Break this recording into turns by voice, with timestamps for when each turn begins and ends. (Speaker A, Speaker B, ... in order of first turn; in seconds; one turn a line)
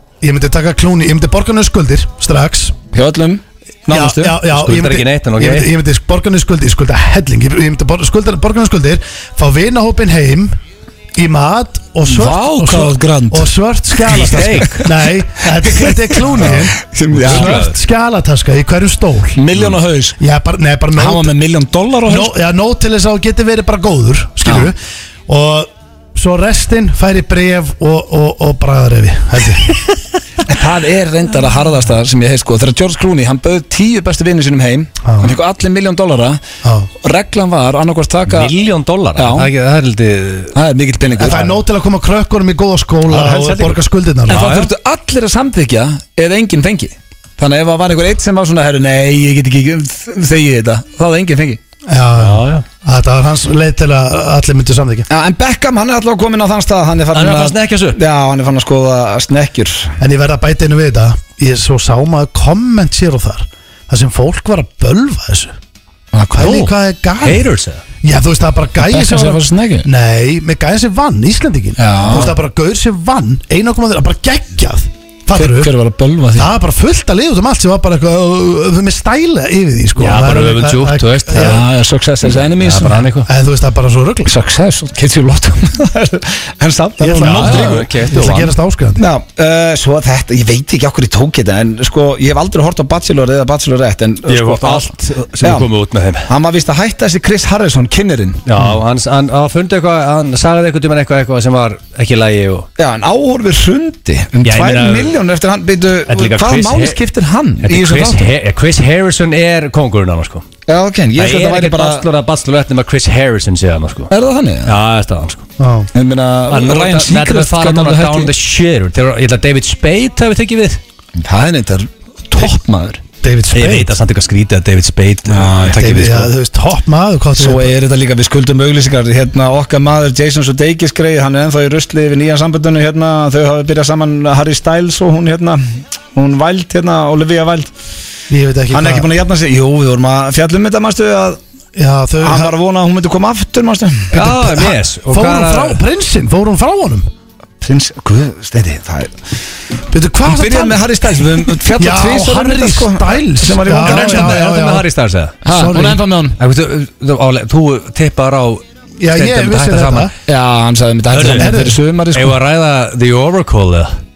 Speaker A: 0.2-2.7
Speaker B: 2.9-4.4
Speaker A: 3.9-10.5
Speaker C: 4.5-5.7
Speaker A: 11.1-19.4
Speaker B: 12.1-13.5
Speaker B: 14.0-14.9
Speaker C: 14.1-14.8
Speaker B: 15.6-17.6
Speaker C: 17.2-17.8
Speaker B: 19.4-20.2
Speaker A: 20.2-21.3
Speaker B: 20.9-22.3
Speaker A: 22.1-29.8
Speaker B: 24.4-24.7
Speaker B: 30.4-36.4
Speaker A: 35.0-35.3
Speaker A: 36.6-36.9
Speaker B: 37.0-38.5
Speaker C: 38.3-40.5
Speaker B: 39.1-39.5
Speaker B: 40.5-41.5
Speaker C: 41.2-41.4
Speaker A: 41.2-44.5
Speaker C: 43.1-43.8
Speaker B: 44.3-51.6
Speaker C: 44.3-44.7
Speaker A: 51.9-55.1
Speaker C: 52.2-52.6
Speaker B: 55.1-60.0
Speaker C: 57.1-58.0
Speaker A: 60.0-65.5
Speaker B: 66.1-66.5
Speaker A: 66.3-67.5
Speaker C: 66.4-67.8
Speaker A: 68.0-75.7
Speaker B: 68.8-69.9
Speaker B: 71.8-72.3
Speaker B: 75.3-76.5
Speaker A: 76.3-81.6
Speaker C: 80.0-81.6
Speaker B: 81.3-83.1
Speaker C: 82.4-83.3
Speaker A: 83.2-84.3
Speaker B: 84.2-87.9
Speaker A: 87.0-89.0
Speaker C: 87.1-88.5
Speaker B: 89.0-95.7
Speaker C: 94.3-96.3
Speaker B: 96.3-98.4
Speaker C: 98.5-102.7
Speaker B: 102.8-108.2
Speaker C: 104.4-105.2
Speaker C: 106.1-107.0
Speaker C: 107.6-110.5
Speaker B: 110.7-112.0
Speaker C: 111.2-114.1
Speaker B: 114.1-114.7
Speaker C: 114.7-115.4
Speaker A: 115.6-115.9
Speaker B: 115.9-118.3
Speaker C: 116.5-120.8
Speaker B: 121.2-123.0
Speaker A: 123.2-123.9
Speaker C: 123.5-126.3
Speaker B: 125.3-126.2
Speaker A: 125.8-127.7
Speaker B: 127.3-137.7
Speaker A: 138.3-139.1
Speaker B: 138.7-141.4
Speaker A: 141.7-142.5
Speaker B: 142.2-144.2
Speaker C: 144.1-145.8
Speaker A: 144.1-147.1
Speaker B: 147.6-149.1
Speaker A: 149.9-150.8
Speaker B: 150.2-154.4
Speaker A: 151.7-154.9
Speaker C: 153.8-155.4
Speaker B: 155.4-156.4
Speaker A: 155.5-156.0
Speaker C: 156.4-160.1
Speaker A: 159.0-160.1
Speaker B: 160.3-162.4
Speaker C: 161.1-161.6
Speaker A: 161.3-161.8
Speaker C: 162.1-163.9